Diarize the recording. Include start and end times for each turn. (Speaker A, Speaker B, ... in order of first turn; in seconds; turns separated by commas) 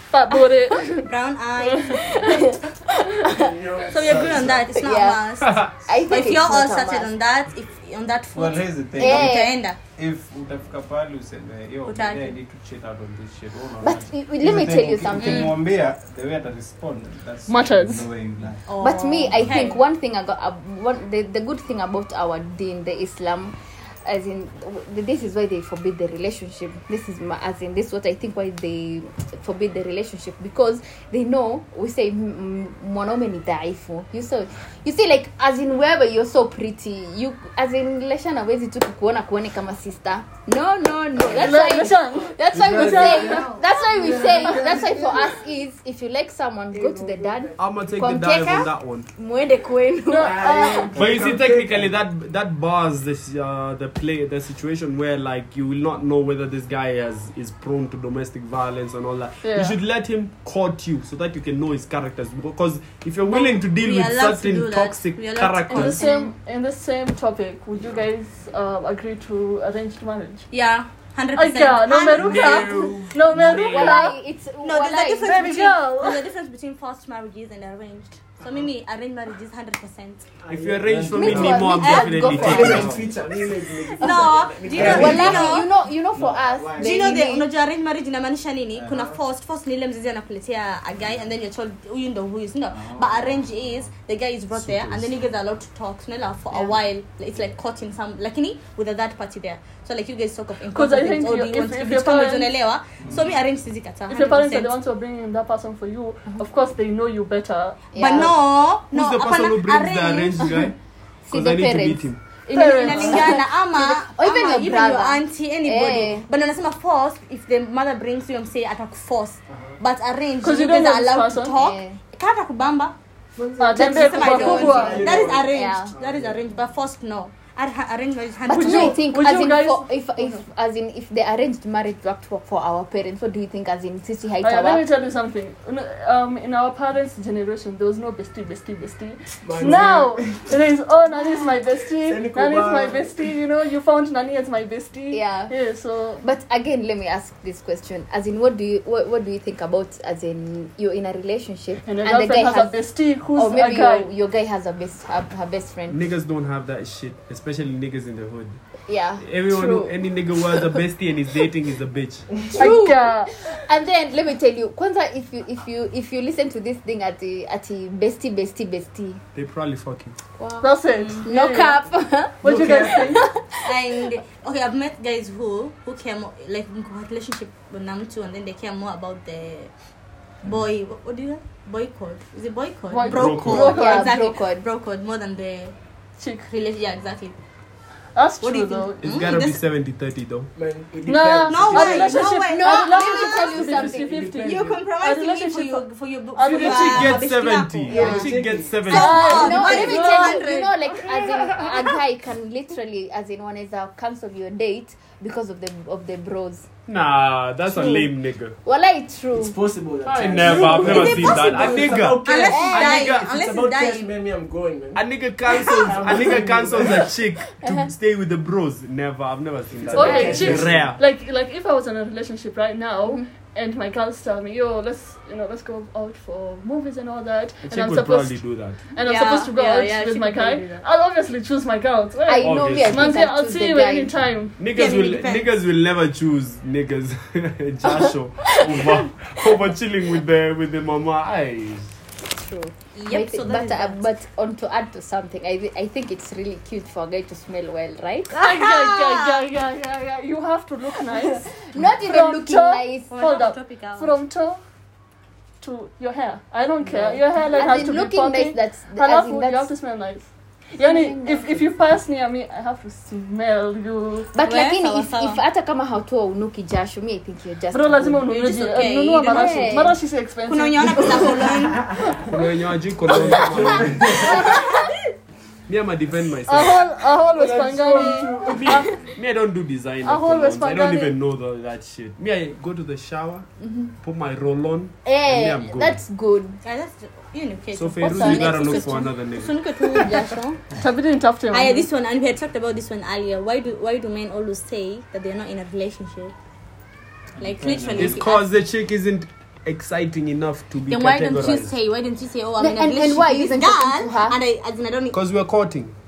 Speaker A: 0.1-1.1, Speaker B: 1.0-2.2, Speaker A: 1.6-2.4, Speaker C: 2.2-3.5, Speaker D: 3.3-4.7, Speaker B: 3.9-9.8, Speaker C: 4.7-7.1, Speaker E: 5.5-5.7, Speaker F: 8.3-18.7, Speaker C: 9.0-9.6, Speaker B: 11.8-12.4, Speaker C: 13.8-15.5, Speaker B: 15.2-15.6, Speaker A: 17.5-18.1, Speaker B: 18.7-19.8, Speaker C: 18.8-50.9, Speaker A: 41.2-43.6, Speaker D: 42.5-45.3, Speaker D: 46.7-48.2, Speaker E: 47.6-49.1, Speaker A: 50.1-51.0, Speaker D: 50.2-51.9, Speaker E: 51.0-66.0, Speaker A: 59.4-59.8, Speaker B: 63.2-66.3, Speaker A: 65.7-70.5, Speaker B: 70.5-72.9, Speaker A: 71.3-74.1, Speaker E: 72.1-74.0, Speaker C: 73.5-75.7, Speaker B: 74.6-80.2, Speaker A: 75.2-76.2, Speaker D: 80.4-85.6, Speaker E: 80.5-83.1, Speaker C: 81.1-82.9, Speaker B: 81.7-82.2, Speaker F: 82.7-83.0, Speaker B: 84.0-85.7, Speaker C: 84.8-87.5, Speaker D: 86.2-87.0, Speaker B: 86.8-104.7, Speaker F: 88.7-89.1, Speaker F: 92.7-93.7, Speaker E: 94.6-95.0, Speaker A: 100.7-102.5, Speaker F: 103.0-103.3, Speaker A: 104.1-107.8, Speaker C: 107.9-108.3, Speaker B: 108.0-110.5, Speaker E: 108.9-110.8, Speaker C: 111.2-116.3, Speaker E: 111.3-112.2, Speaker A: 112.5-113.4, Speaker B: 112.5-122.9, Speaker D: 119.5-119.8, Speaker A: 120.4-121.5, Speaker C: 121.5-122.0, Speaker D: 123.4-126.3, Speaker A: 123.6-125.2, Speaker C: 123.7-125.9, Speaker B: 123.7-129.0, Speaker C: 128.5-134.8, Speaker A: 128.5-130.4, Speaker A: 134.4-146.2, Speaker D: 139.4-140.5, Speaker D: 142.0-143.2, Speaker C: 145.1-145.5, Speaker C: 146.2-156.0, Speaker A: 151.8-154.1, Speaker E: 155.9-158.6, Speaker C: 158.8-160.8, Speaker E: 159.2-162.3, Speaker C: 162.5-169.2, Speaker A: 162.6-163.3, Speaker E: 169.3-170.2, Speaker C: 170.4-170.7, Speaker A: 170.6-171.8, Speaker C: 171.2-173.6, Speaker A: 172.4-173.2, Speaker D: 172.4-173.2, Speaker B: 173.6-179.7, Speaker B: 180.4-185.7, Speaker A: 182.9-184.2, Speaker E: 183.1-183.8, Speaker C: 183.5-184.6, Speaker A: 186.2-186.4, Speaker B: 186.4-187.4, Speaker A: 188.1-189.1, Speaker B: 188.4-189.6, Speaker E: 189.0-190.5, Speaker D: 190.5-192.4, Speaker A: 191.1-197.2, Speaker B: 191.5-193.6, Speaker C: 192.5-194.1, Speaker D: 193.6-194.8, Speaker B: 194.4-198.3, Speaker E: 196.6-199.6, Speaker D: 197.9-198.8, Speaker C: 197.9-198.2, Speaker B: 198.8-200.8, Speaker A: 198.9-200.4, Speaker C: 198.9-206.7, Speaker E: 206.8-208.6, Speaker C: 207.7-208.1, Speaker C: 208.6-209.6, Speaker D: 209.3-217.1, Speaker E: 210.1-213.4, Speaker B: 210.7-214.1, Speaker C: 212.5-213.0, Speaker E: 214.9-221.0, Speaker C: 217.6-217.9, Speaker D: 219.7-220.9, Speaker A: 219.9-234.6, Speaker C: 220.1-220.3, Speaker E: 227.6-228.8, Speaker B: 229.0-230.8, Speaker C: 232.2-234.2, Speaker E: 232.4-233.2, Speaker E: 234.6-241.9, Speaker B: 234.7-235.5, Speaker C: 238.6-239.0, Speaker C: 242.2-248.3, Speaker B: 242.9-244.0, Speaker B: 248.3-249.4, Speaker A: 248.3-254.6, Speaker C: 251.2-253.1, Speaker B: 253.1-254.2, Speaker A: 255.6-264.3, Speaker C: 256.9-259.7, Speaker C: 260.8-261.6, Speaker C: 264.3-268.3, Speaker B: 264.4-265.4, Speaker A: 267.7-271.3, Speaker B: 268.3-269.9, Speaker C: 269.2-270.0, Speaker B: 270.4-271.9, Speaker E: 272.2-274.4, Speaker D: 273.1-274.4, Speaker C: 274.2-274.8, Speaker E: 275.7-276.9, Speaker A: 276.4-279.0, Speaker D: 277.3-278.7, Speaker E: 278.4-283.5, Speaker A: 280.0-281.1, Speaker C: 283.6-283.9, Speaker E: 284.0-286.0, Speaker C: 285.0-286.6, Speaker B: 286.6-290.6, Speaker E: 287.7-289.7, Speaker C: 288.0-289.1, Speaker A: 290.8-291.9, Speaker B: 291.5-296.3, Speaker B: 297.4-298.4, Speaker F: 297.4-298.2, Speaker E: 297.9-301.7, Speaker B: 300.9-305.2, Speaker C: 302.6-304.4, Speaker E: 305.1-305.9